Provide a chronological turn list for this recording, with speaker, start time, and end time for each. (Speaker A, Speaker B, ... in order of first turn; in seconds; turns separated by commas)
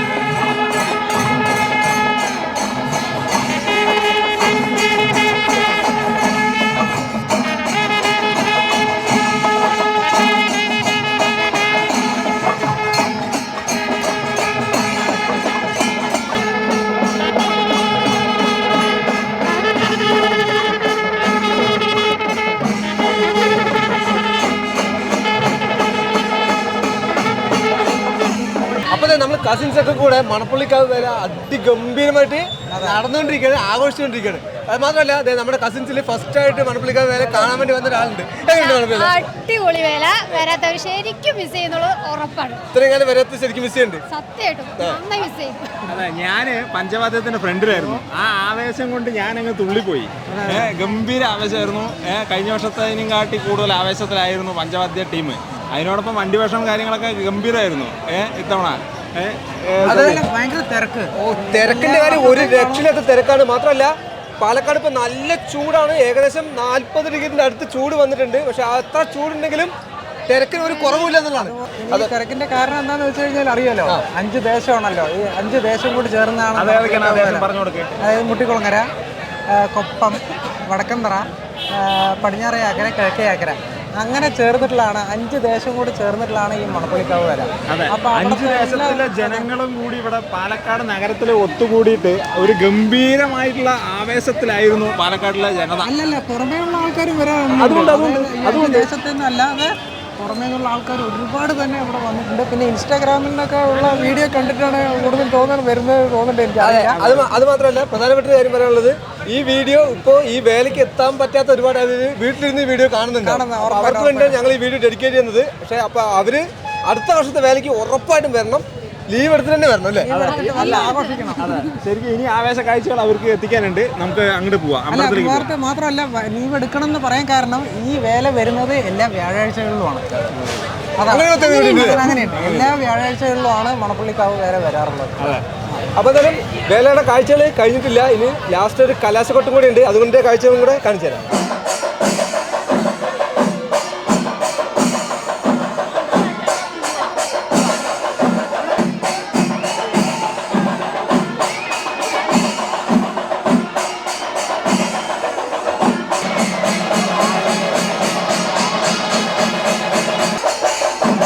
Speaker A: 28.9-39.2, Speaker B: 32.7-33.0, Speaker C: 38.5-42.6, Speaker A: 42.7-44.0, Speaker C: 44.1-45.8, Speaker D: 45.9-60.2, Speaker B: 50.3-50.7, Speaker B: 59.8-62.9, Speaker A: 59.9-60.2, Speaker A: 61.2-69.7, Speaker A: 70.3-72.1, Speaker B: 71.4-77.5, Speaker D: 76.6-77.9, Speaker B: 78.0-78.9, Speaker B: 79.5-89.5, Speaker D: 87.7-95.9, Speaker B: 95.8-107.2, Speaker D: 97.5-98.9, Speaker A: 106.6-120.2, Speaker B: 113.2-114.4, Speaker B: 120.0-121.5, Speaker D: 120.1-125.5, Speaker C: 120.3-121.4, Speaker B: 124.9-130.3, Speaker B: 131.0-135.4, Speaker A: 131.1-132.8, Speaker C: 131.4-132.2, Speaker D: 132.4-132.6, Speaker A: 136.0-141.3